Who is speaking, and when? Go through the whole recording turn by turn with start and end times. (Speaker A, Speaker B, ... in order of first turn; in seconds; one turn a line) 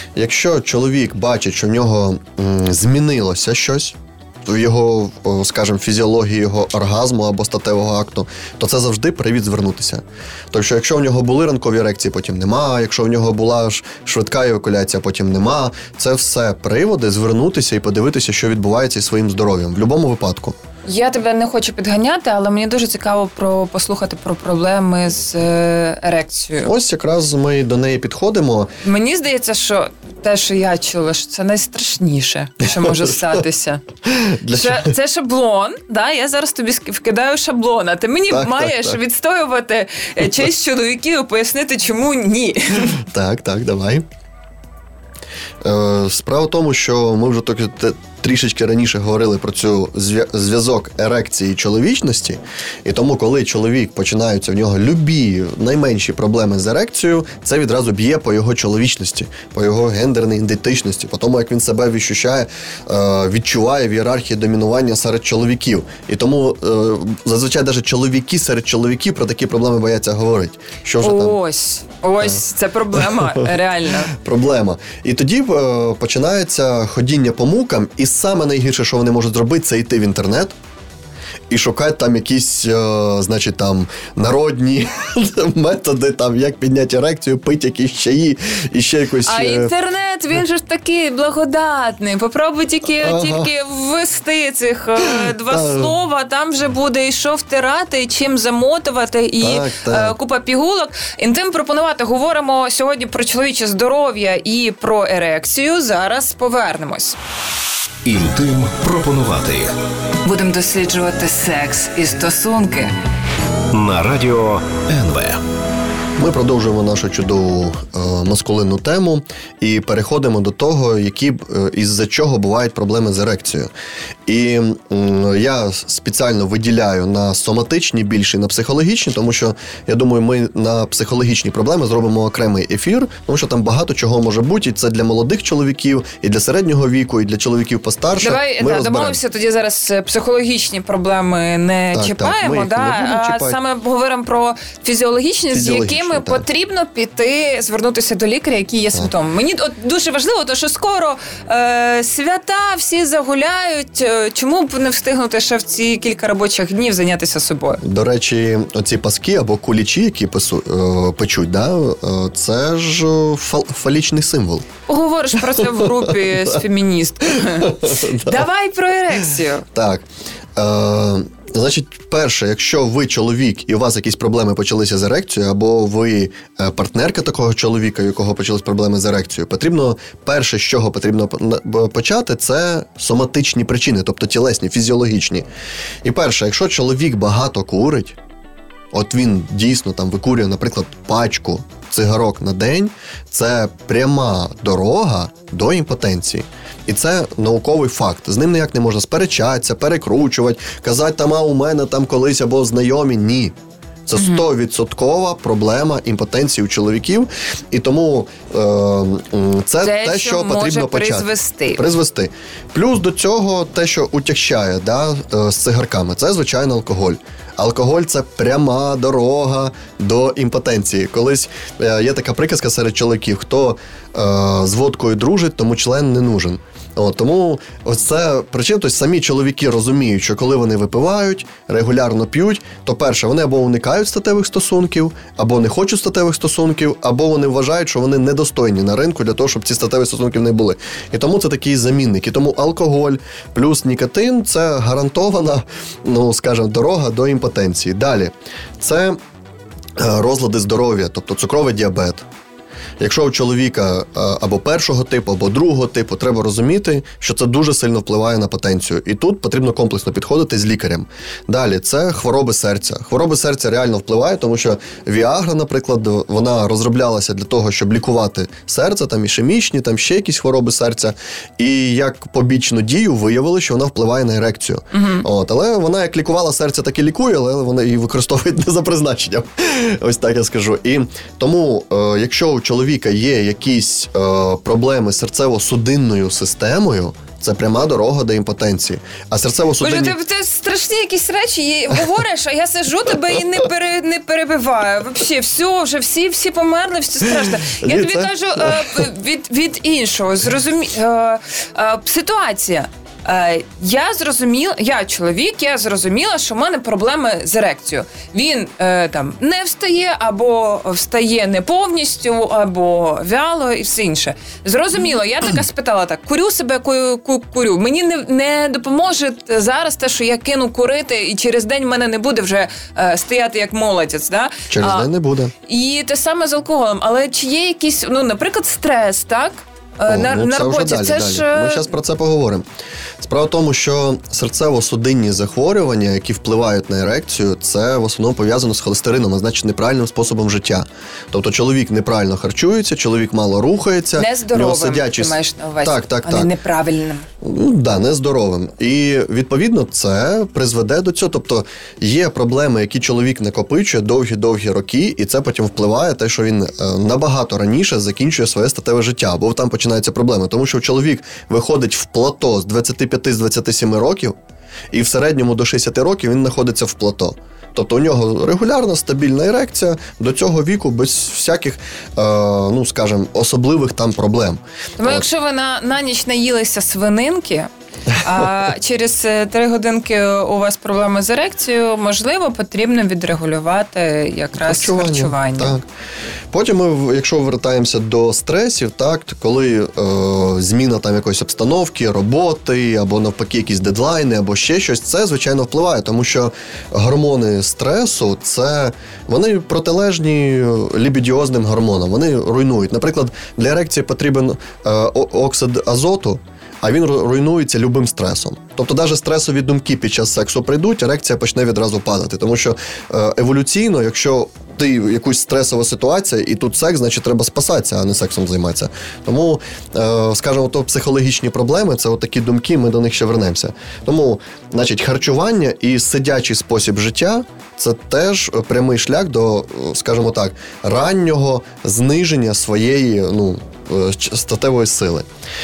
Speaker A: 0.1-20.6
Speaker B: 20.9-26.7
Speaker A: 26.6-28.7
Speaker B: 28.8-33.8
Speaker A: 32.8-33.1
Speaker A: 34.1-34.9
Speaker B: 34.5-43.0
Speaker A: 38.3-39.0
Speaker A: 43.0-44.0
Speaker A: 45.6-71.3
Speaker B: 71.0-74.1
Speaker A: 73.0-73.5
Speaker A: 74.1-80.5
Speaker A: 81.5-89.7
Speaker B: 89.2-107.2
Speaker A: 93.0-93.5
Speaker A: 95.0-95.9
Speaker A: 99.4-100.1
Speaker C: 108.0-109.7
Speaker B: 110.2-112.9
Speaker C: 113.7-115.4
Speaker A: 116.2-123.7
Speaker A: 124.2-139.2
Speaker B: 138.2-157.8
Speaker A: 141.9-143.6
Speaker A: 145.5-146.4
Speaker A: 157.8-164.7
Speaker B: 164.9-169.6
Speaker A: 165.4-166.6
Speaker A: 167.4-168.4
Speaker A: 169.7-185.4
Speaker A: 186.0-188.2
Speaker A: 188.9-203.5
Speaker A: 204.1-249.2
Speaker B: 204.2-204.4
Speaker B: 209.8-211.8
Speaker A: 250.0-252.2
Speaker A: 253.0-290.2
Speaker B: 274.9-275.3
Speaker B: 289.8-325.1
Speaker A: 297.4-299.1
Speaker A: 324.7-325.5
Speaker B: 325.6-331.9
Speaker A: 330.1-332.6
Speaker A: 333.2-346.5
Speaker B: 344.2-347.3
Speaker A: 347.4-364.4
Speaker A: 364.9-375.2
Speaker B: 375.0-385.8
Speaker A: 384.6-385.8
Speaker A: 386.5-435.3